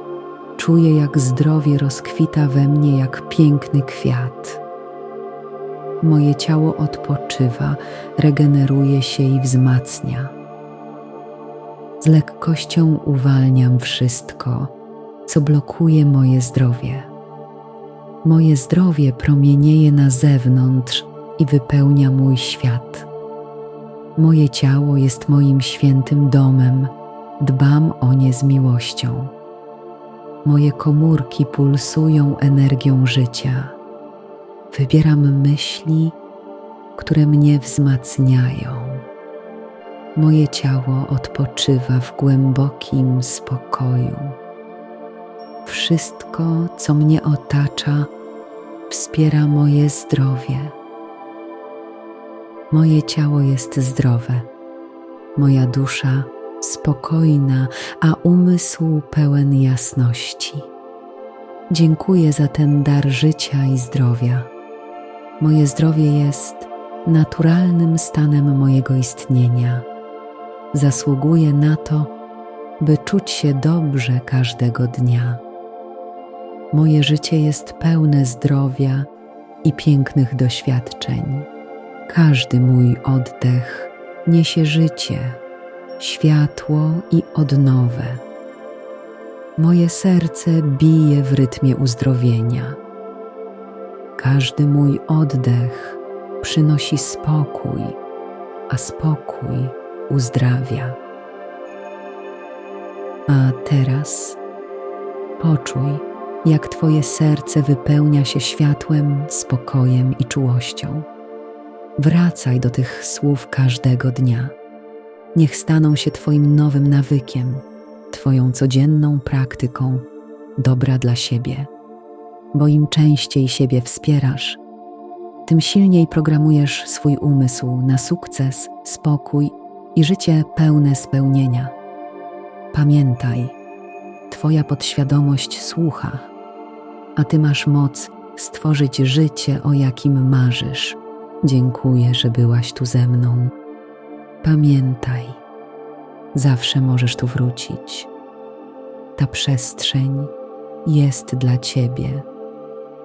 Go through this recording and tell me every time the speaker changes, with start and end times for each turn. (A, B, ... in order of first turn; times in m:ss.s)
0:00.6-0:04.6 A
0:06.0-0:10.3 A
0:12.0-0:14.7 A
0:15.2-0:17.1 A
0:18.2-0:23.1 A
0:24.2-0:29.3 A
0:30.4-0:33.8 A
0:34.7-0:36.2 A
0:37.0-0:39.1 A
0:40.1-0:44.4 A
0:45.6-0:48.1 A
0:48.9-0:50.8 A
0:52.7-0:54.5 A
0:55.4-1:00.7 A
1:01.7-1:04.5 A
1:05.4-1:09.9 A
1:10.7-1:12.1 A
1:12.8-1:15.4 A
1:16.7-1:19.1 A
1:19.6-1:21.5 A
1:22.1-1:25.4 A
1:26.0-1:28.2 A
1:29.6-1:32.8 A
1:34.2-1:38.0 A
1:38.7-1:41.0 A
1:43.3-1:44.4 A
1:45.4-1:51.1 A
1:52.0-1:54.6 A
1:55.3-2:01.7 A
2:02.5-2:04.6 A
2:05.4-2:11.7 A
2:12.7-2:13.6 A
2:14.3-2:16.3 A
2:17.2-2:23.5 A
2:24.4-2:25.4 A
2:26.3-2:28.1 A
2:29.2-2:30.3 A
2:30.8-2:32.3 A